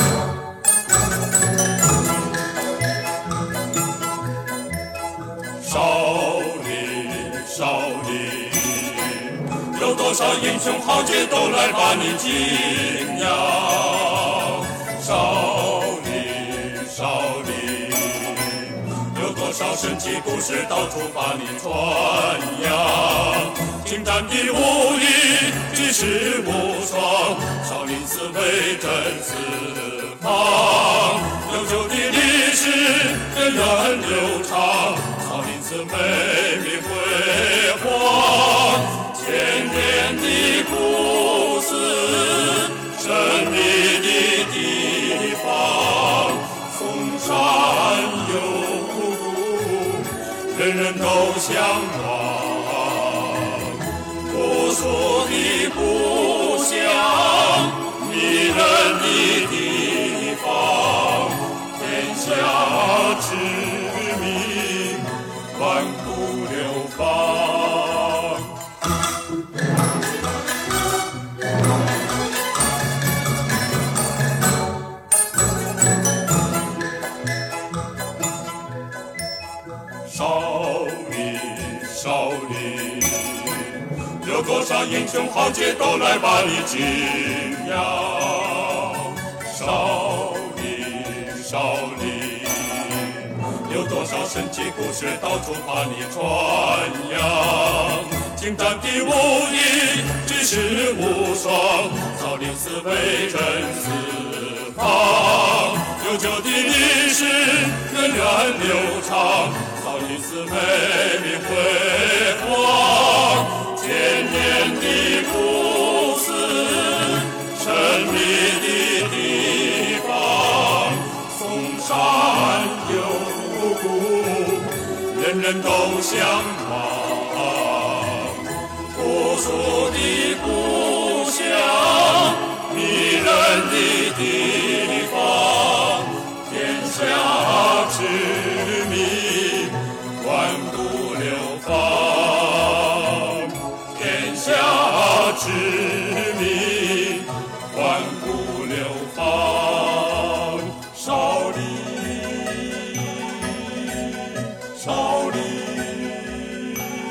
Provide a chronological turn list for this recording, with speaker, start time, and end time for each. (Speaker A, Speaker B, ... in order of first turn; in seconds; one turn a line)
Speaker A: 5.6-68.5
Speaker A: 80.1-152.9
Speaker A: 154.7-156.3